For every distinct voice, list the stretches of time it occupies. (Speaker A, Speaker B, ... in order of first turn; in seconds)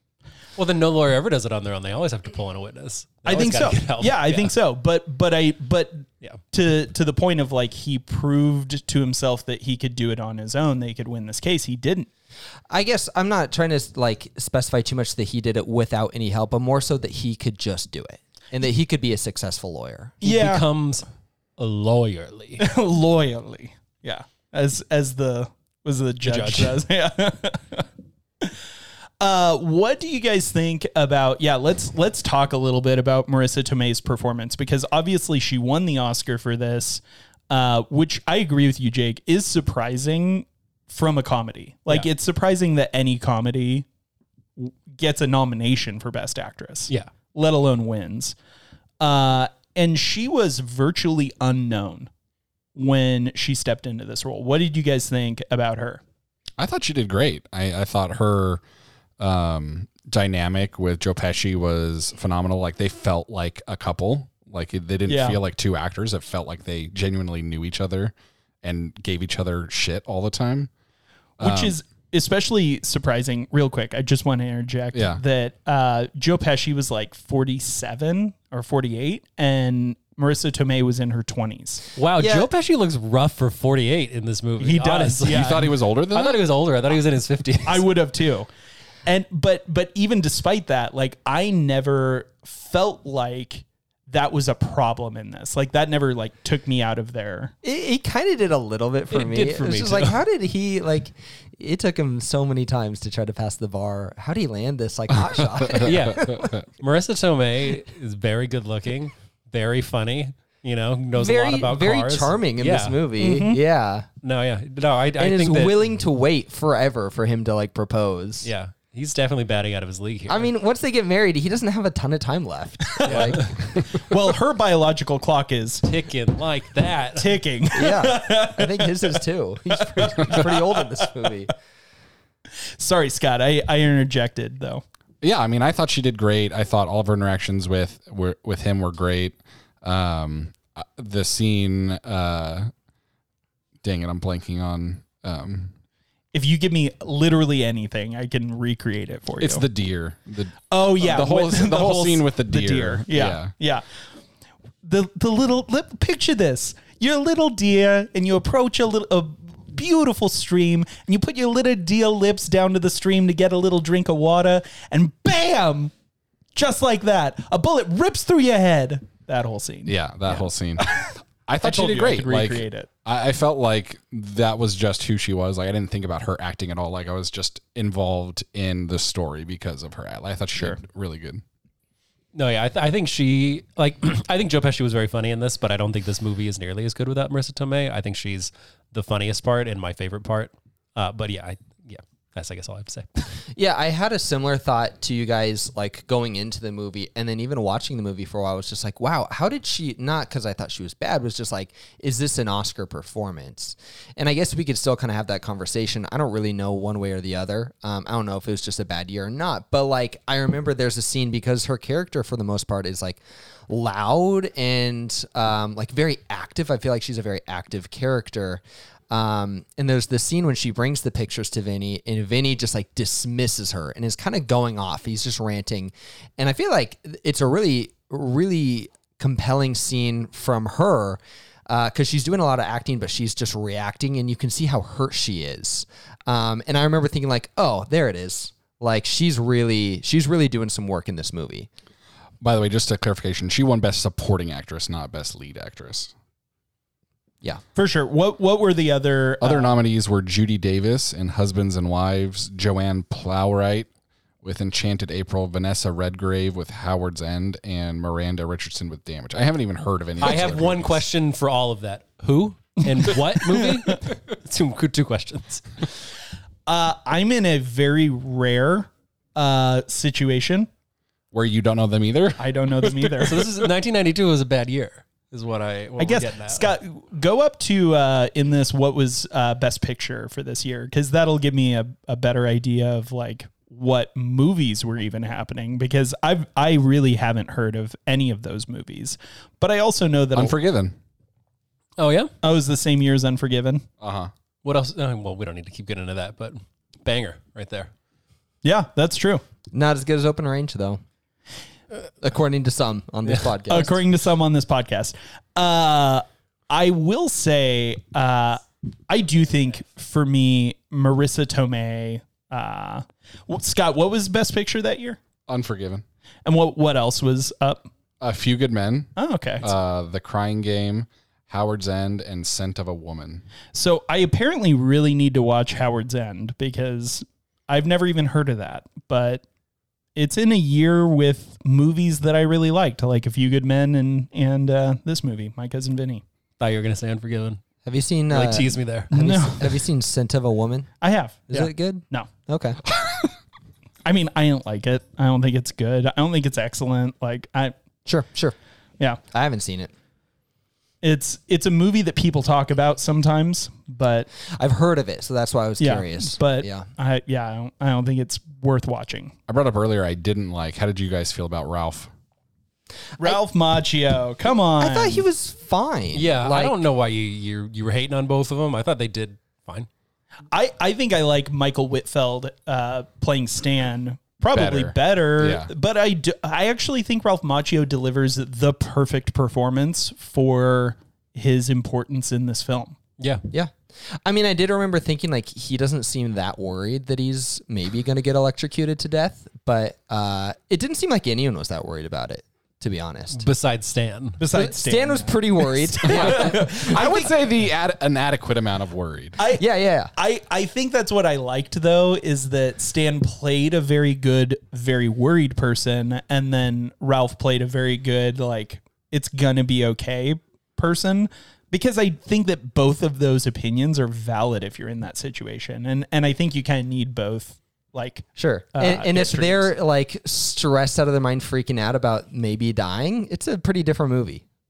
Speaker A: 0.6-4.5, 20.2-21.1, 21.6-22.6, 26.2-26.8, 82.0-87.8, 99.1-100.2, 105.8-113.1, 114.2-115.8, 118.4-120.5, 123.0-123.5, 125.8-127.4, 182.3-193.3, 260.2-265.8, 273.2-276.7, 292.0-292.3, 294.6-297.9, 336.6-337.6, 338.3-339.1, 366.1-369.9, 383.2-383.4, 393.3-394.4
Speaker B: 3.2-12.1, 20.2-20.6, 22.6-27.9, 29.2-43.9, 44.6-48.3, 49.0-52.1, 52.7-56.0, 65.1-65.4, 71.4-81.9, 84.6-85.7, 87.6-88.5, 89.0-97.5, 113.2-113.6, 123.0-125.8, 127.2-131.3, 132.8-134.8, 146.3-149.6, 150.7-153.8, 154.8-165.9, 166.5-172.9, 247.7-249.7, 266.7-270.7, 272.4-273.4, 276.0-290.6, 292.4-293.9, 298.6-299.4, 303.7-315.2, 316.4-317.9, 319.1-319.7, 323.7-329.4, 330.1-336.2, 339.1-339.8, 341.0-342.3, 344.0-347.7, 351.0-354.3, 355.8-359.3, 363.2-365.2, 370.5-383.0, 394.4-397.4, 399.4-399.6, 400.1-419.7
Speaker C: 12.7-20.2, 82.2-82.5, 97.6-106.5, 111.1-114.1, 115.2-118.5, 120.3-123.8, 127.7-131.5, 193.5-241.7, 299.7-301.0, 302.2-304.0, 337.8-340.9, 341.5-342.8, 348.1-348.5, 349.3-349.9, 354.5-356.9, 364.8-366.8, 384.2-393.4, 394.5-396.9, 399.5-400.1, 418.4-424.4
Speaker D: 56.6-58.6, 59.2-70.7, 71.4-71.8, 74.9-75.2, 85.2-86.4, 105.1-106.7, 135.2-142.7, 143.8-145.7, 149.4-153.5, 169.8-181.4, 242.4-246.1, 249.4-253.9, 254.4-261.0, 271.3-273.5, 290.3-290.9, 294.0-294.3, 315.5-316.0, 318.2-323.4, 359.5-362.1, 374.5-375.7, 396.1-399.4